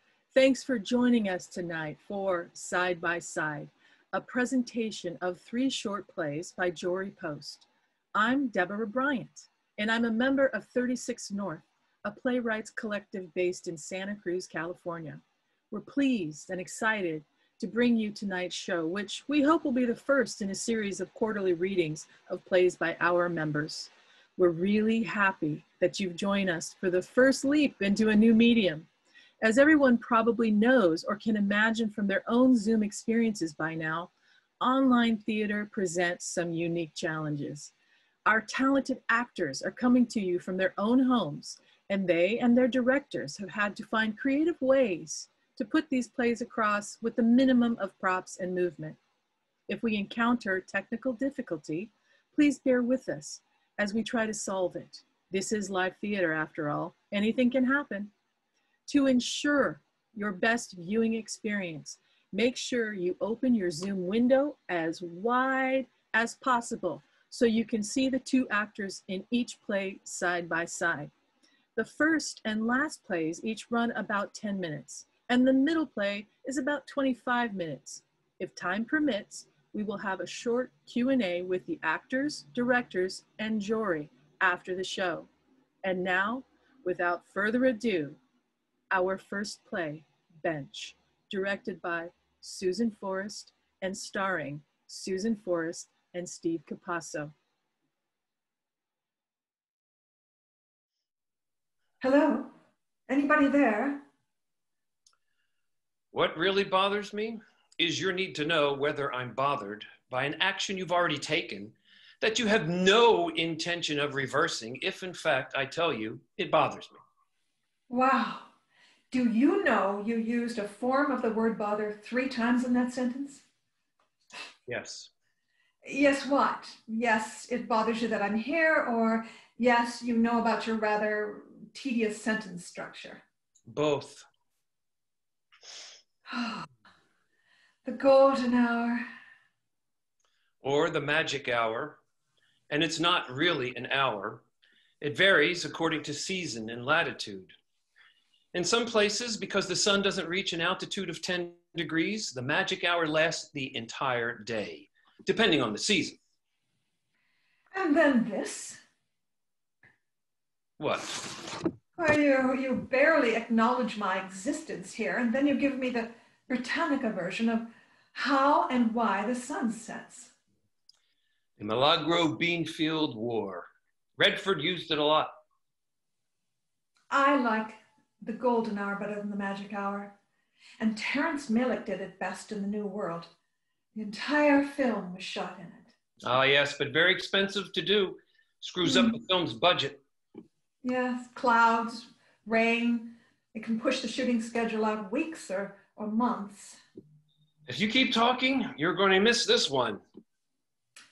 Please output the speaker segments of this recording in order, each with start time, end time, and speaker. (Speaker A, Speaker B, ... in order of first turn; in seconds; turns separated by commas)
Speaker A: 0.3-28.9, Speaker A: 29.4-37.7, Speaker A: 38.3-49.0, Speaker A: 49.7-58.1, Speaker A: 58.9-71.1, Speaker A: 71.8-85.3, Speaker A: 85.8-88.2, Speaker A: 88.9-97.3, Speaker B: 102.0-102.5, Speaker B: 103.1-104.0, Speaker C: 106.1-117.0, Speaker B: 117.9-118.5, Speaker B: 119.1-123.4, Speaker C: 124.7-125.1, Speaker B: 125.8-133.2, Speaker C: 133.7-134.3, Speaker B: 136.3-136.7, Speaker B: 137.8-139.1, Speaker C: 140.6-142.0, Speaker C: 142.7-144.4, Speaker C: 145.0-147.6, Speaker C: 148.5-156.2, Speaker B: 157.7-158.8, Speaker C: 160.8-161.3, Speaker B: 162.0-170.3, Speaker C: 171.6-173.7, Speaker C: 174.2-175.3, Speaker B: 177.1-180.2, Speaker B: 180.8-183.3, Speaker B: 183.9-185.9, Speaker C: 186.2-190.0, Speaker B: 188.8-189.2, Speaker B: 190.8-196.8, Speaker C: 197.7-200.0